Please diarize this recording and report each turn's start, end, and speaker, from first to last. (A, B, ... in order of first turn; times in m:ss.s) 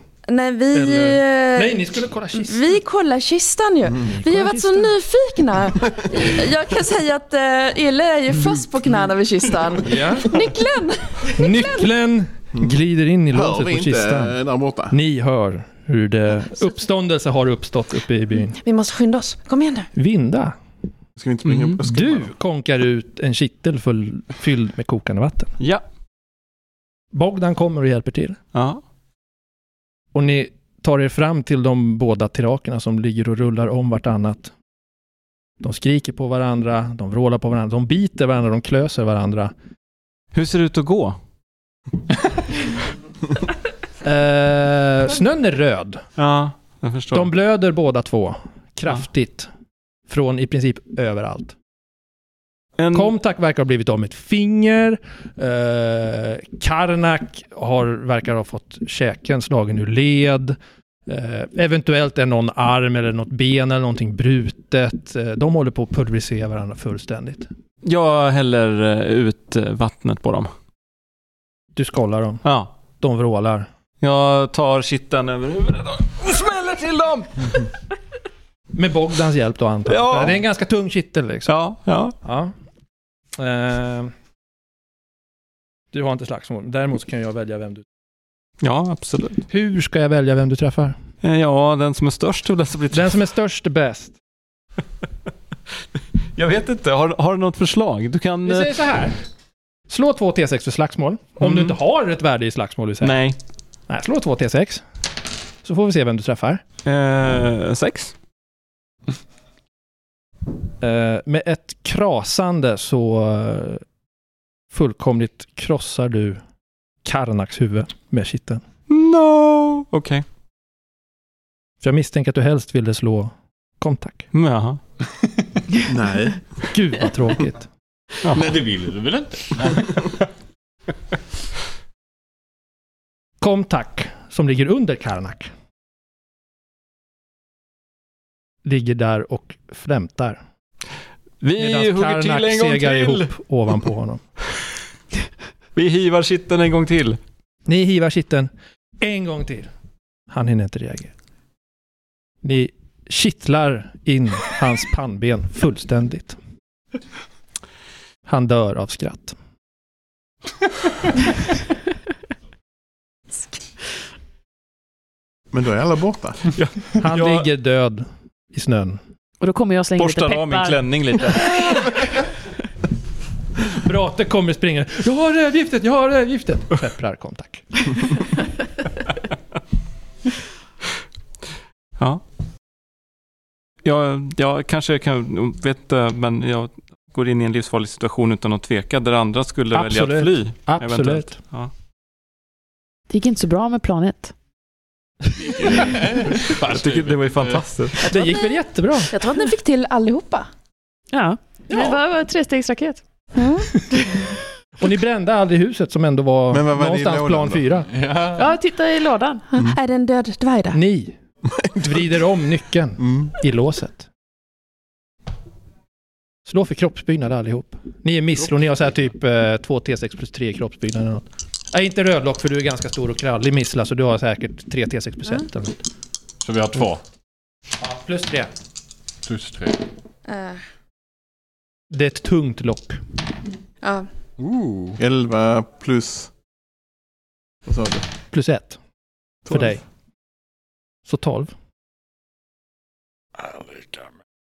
0:00.3-0:11.9 A
0:00.7-0:02.7 B
0:04.0-0:04.9 B
0:09.8-0:10.4 B
0:11.3-0:14.4 B
0:13.3-0:15.0 C
0:14.9-0:18.6 B
0:18.6-0:19.9 A
0:20.0-0:20.6 B
0:21.2-0:22.3 C
0:21.5-0:21.8 D
0:21.8-0:25.5 B
0:27.1-0:28.4 B
0:28.5-0:28.8 D
0:30.1-0:34.5 B
0:35.6-0:39.5 B
0:40.3-0:41.2 D
0:44.0-0:46.0 B
0:46.2-0:47.3 D
0:47.1-0:49.5 B
0:50.1-0:51.6 B
0:52.8-0:53.1 D
0:52.9-1:07.5 B
1:07.8-1:10.5 D
1:11.8-1:13.7 B
1:12.4-1:12.8 D
1:14.0-1:17.7 D
1:18.7-1:21.5 B
1:19.9-1:20.4 D
1:21.5-1:22.2 D
1:22.2-1:22.5 B
1:23.4-1:24.1 B
1:25.9-1:27.8 B
1:28.6-1:29.4 D
1:29.5-1:31.0 B
1:31.2-1:33.2 D
1:32.9-1:34.2 B
1:36.4-1:38.7 D
1:38.4-1:39.2 B
1:39.9-1:43.1 B
1:41.4-1:41.8 D
1:43.0-1:43.4 D
1:43.9-1:44.8 B
1:45.6-1:46.6 B
1:46.8-1:48.1 D
1:50.8-1:53.8 B
1:54.7-1:56.4 B
1:57.0-1:58.6 B
1:58.9-2:00.2 D
2:01.8-2:04.3 B
2:04.3-2:04.8 D
2:05.8-2:06.4 C
2:06.7-2:07.7 B
2:08.3-2:10.1 E
2:13.4-2:15.5 B
2:18.6-2:20.4 B
2:21.4-2:23.3 D
2:21.6-2:24.2 B
2:25.8-2:27.2 D
2:27.7-2:28.5 B
2:29.0-2:29.7 B
2:30.3-2:31.1 B
2:32.4-2:36.4 B
2:38.3-2:39.4 B
2:45.5-2:46.5 C
2:46.6-2:47.5 D
2:47.0-2:49.0 B
2:49.4-2:50.8 F
2:50.0-2:51.8 D
2:51.6-2:52.1 B
2:53.6-2:58.2 B
3:03.8-3:11.7 D
3:09.7-3:11.4 B
3:13.1-3:14.3 F
3:15.4-3:17.6 E
3:16.5-3:18.2 D
3:18.1-3:19.1 B
3:18.1-3:20.5 A
3:21.1-3:23.0 F
3:23.4-3:23.7 A
3:24.8-3:27.9 B
3:26.5-3:27.6 C
3:27.9-3:28.4 E
3:28.4-3:29.4 F
3:29.5-3:30.8 A
3:30.7-3:31.2 B
3:31.5-3:32.1 C
3:31.8-3:34.1 B
3:33.0-3:33.3 C
3:36.5-3:45.8 B
3:46.4-3:47.0 E
3:47.8-3:48.5 B
3:49.2-3:49.8 E
3:50.3-3:50.6 A
3:51.9-3:53.0 B
3:53.8-3:54.1 A
3:54.4-3:55.0 E
3:55.0-3:56.3 C
3:57.6-3:58.1 C
3:58.3-3:58.8 B
3:59.5-3:59.8 B
4:01.1-4:01.5 B
4:03.4-4:04.1 E